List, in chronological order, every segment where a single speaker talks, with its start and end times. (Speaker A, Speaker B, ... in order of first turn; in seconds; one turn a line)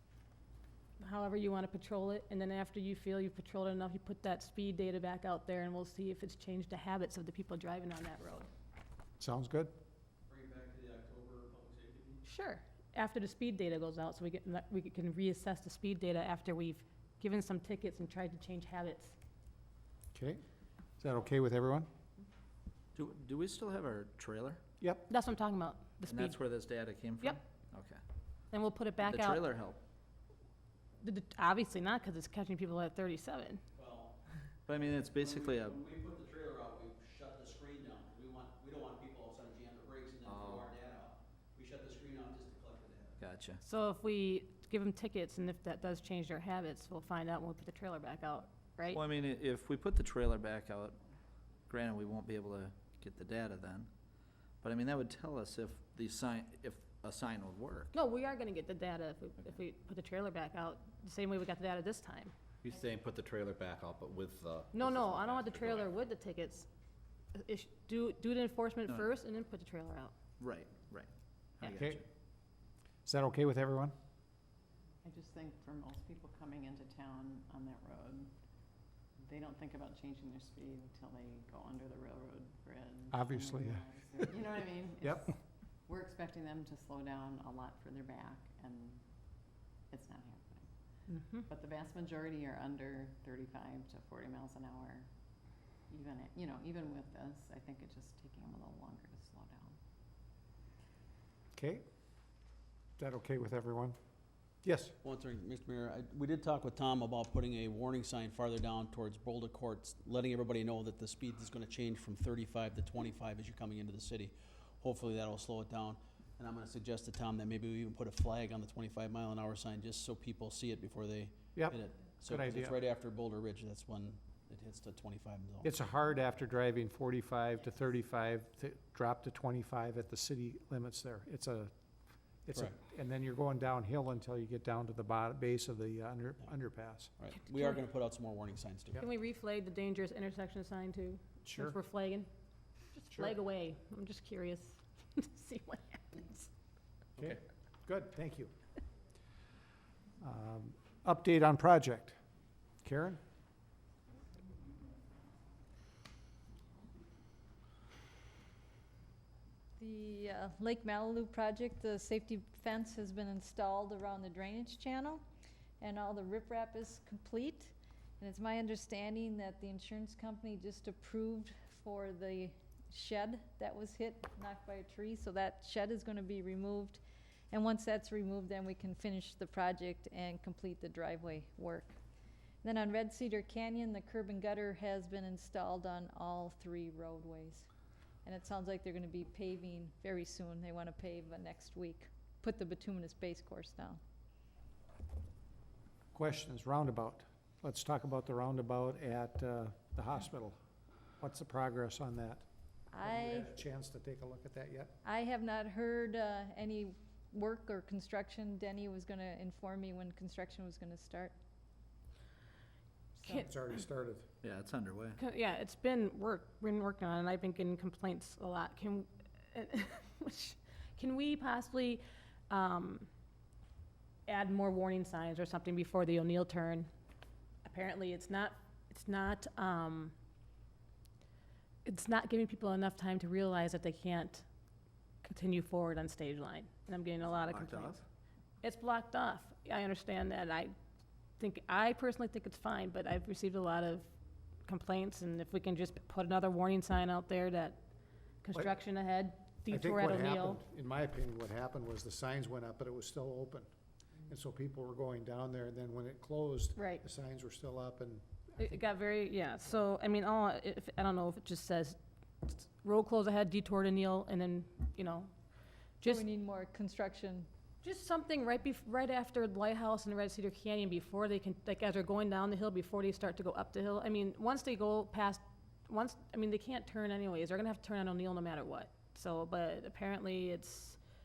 Speaker A: 1.0-8.5
Speaker B: 9.2-9.7
Speaker C: 10.3-12.2
Speaker A: 12.2-19.1
Speaker B: 20.1-20.4
Speaker B: 21.0-21.9
Speaker D: 22.9-24.6
Speaker B: 24.8-25.1
Speaker A: 25.1-26.4
Speaker D: 26.1-28.0
Speaker A: 28.5-29.5
Speaker D: 29.0-29.8
Speaker A: 31.0-33.6
Speaker C: 33.8-34.1
Speaker D: 34.7-35.8
Speaker C: 34.8-43.2
Speaker E: 40.2-40.6
Speaker D: 43.2-43.6
Speaker A: 43.6-49.0
Speaker D: 48.9-51.0
Speaker D: 51.7-53.9
Speaker D: 54.6-57.9
Speaker A: 57.9-62.3
Speaker E: 62.6-65.8
Speaker A: 64.7-66.7
Speaker A: 67.3-70.1
Speaker D: 70.4-72.0
Speaker B: 71.6-72.0
Speaker B: 73.0-73.9
Speaker F: 75.0-78.3
Speaker F: 79.2-89.0
Speaker B: 83.1-84.4
Speaker B: 85.0-85.3
Speaker F: 89.9-90.7
Speaker A: 91.1-91.4
Speaker F: 91.4-95.1
Speaker F: 95.9-99.8
Speaker B: 101.5-101.8
Speaker B: 103.0-104.0
Speaker B: 104.6-104.9
Speaker C: 105.0-125.7
Speaker B: 121.5-122.8
Speaker B: 125.6-131.7
Speaker B: 132.4-137.1
Speaker C: 137.2-139.0
Speaker A: 137.4-137.8
Speaker A: 138.9-142.3
Speaker B: 141.4-141.8
Speaker A: 142.9-146.5
Speaker B: 147.2-148.5
Speaker B: 150.2-152.2
Speaker B: 152.8-153.2
Speaker G: 159.8-165.2
Speaker G: 165.8-177.0
Speaker G: 177.5-181.9
Speaker G: 182.6-187.7
Speaker G: 188.2-194.0
Speaker B: 196.1-200.6
Speaker B: 201.2-202.4
Speaker G: 202.9-203.6
Speaker B: 203.0-205.0
Speaker G: 205.0-211.3
Speaker A: 213.2-213.5
Speaker B: 213.3-214.3
Speaker D: 214.4-215.2
Speaker A: 215.2-223.1
Speaker A: 224.3-226.9
Speaker A: 227.6-230.1
Speaker A: 231.8-234.4
Speaker A: 235.2-238.0
Speaker A: 238.6-240.7
Speaker A: 241.4-244.1
Speaker A: 244.7-247.8
Speaker A: 248.4-250.6
Speaker B: 249.7-253.7
Speaker B: 254.3-258.7
Speaker A: 256.8-257.0
Speaker A: 258.6-265.3
Speaker G: 266.0-267.5
Speaker A: 267.8-281.0